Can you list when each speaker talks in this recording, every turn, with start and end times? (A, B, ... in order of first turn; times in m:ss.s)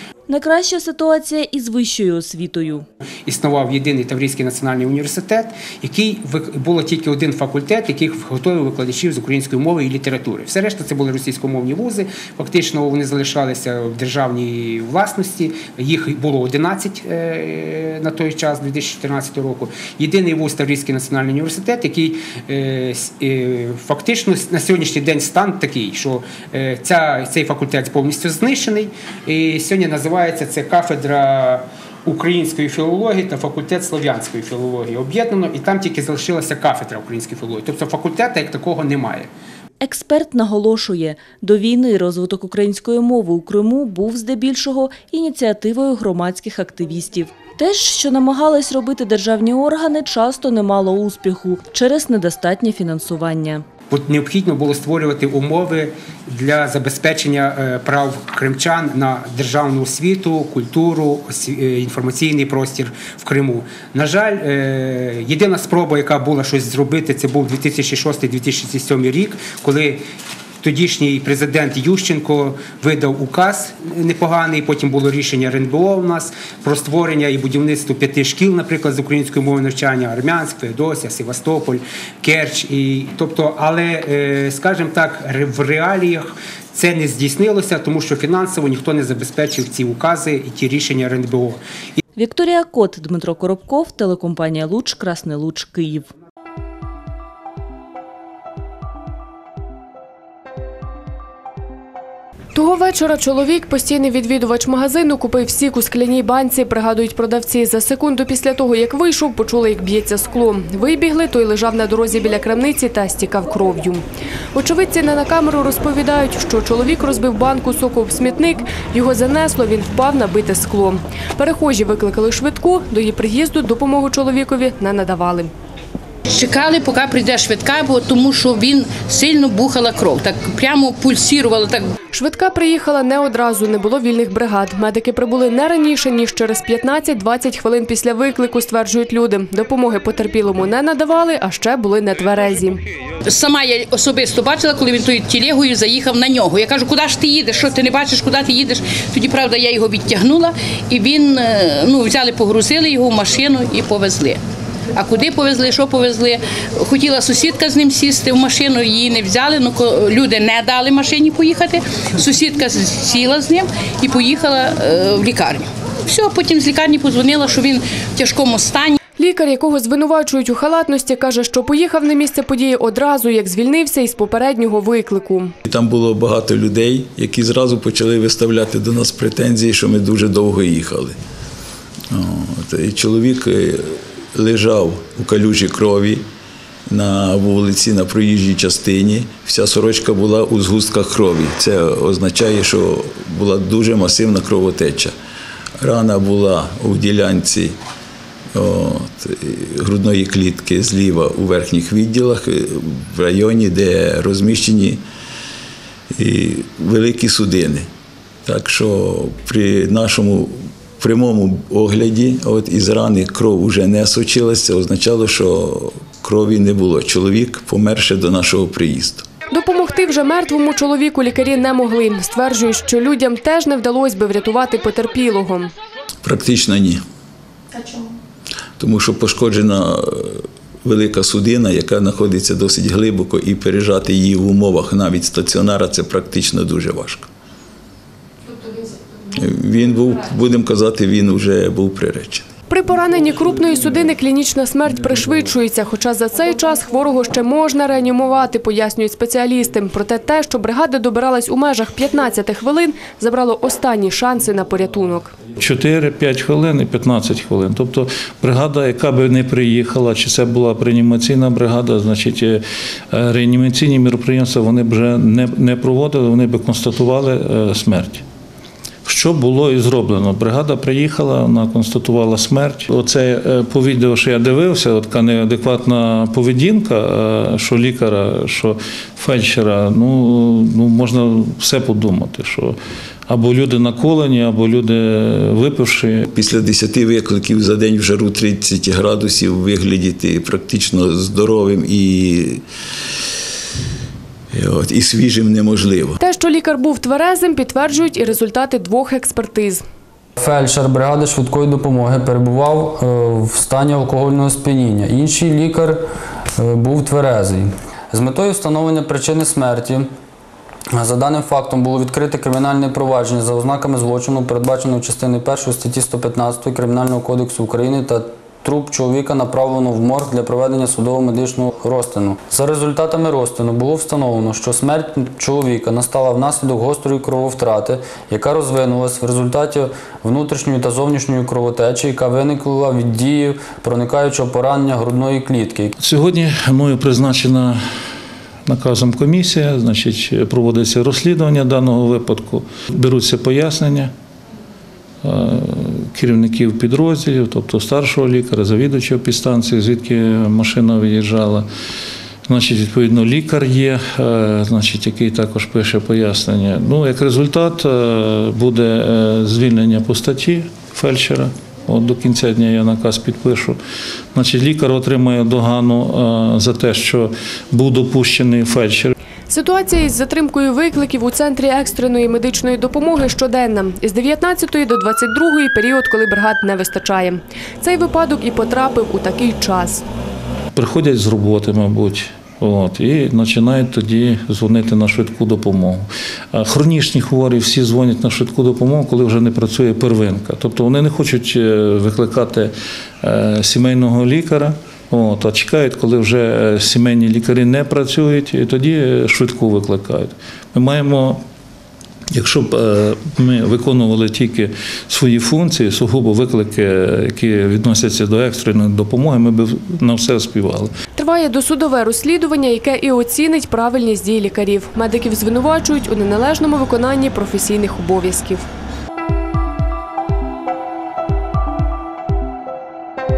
0:00.3-0:02.8 A
0:03.2-0:39.3 B
0:39.8-0:53.6 A
0:53.9-1:10.0 B
1:10.6-1:31.6 B
1:32.2-1:36.1 A
1:42.5-2:05.5 C
2:06.3-2:11.9 D
2:12.1-2:22.8 C
2:23.3-2:34.4 D
2:35.0-2:49.0 D
2:49.2-2:55.5 C
2:55.7-3:01.1 E
3:02.1-3:06.2 E
3:06.9-3:15.1 E
3:15.8-3:17.8 E
3:18.5-3:25.0 E
3:26.1-3:27.8 E
3:28.4-3:39.2 E
3:39.5-3:45.7 C
3:46.2-3:47.0 E
3:48.8-3:57.3 E
3:59.4-4:02.5 E
4:02.7-4:15.4 C
4:15.6-4:28.2 F
4:29.0-4:46.2 F
4:46.3-4:52.6 E
4:54.5-4:56.2 E
4:56.2-4:59.8 C
5:00.4-5:06.0 G
5:06.6-5:10.1 G
5:10.9-5:35.9 G
5:36.0-5:37.8 F
5:38.6-5:44.1 F
5:45.2-5:51.7 F
5:52.4-6:03.8 F
6:04.3-6:09.1 F
6:09.5-6:20.0 C
6:20.7-6:41.4 F
6:42.3-6:50.9 F
6:51.2-6:58.6 C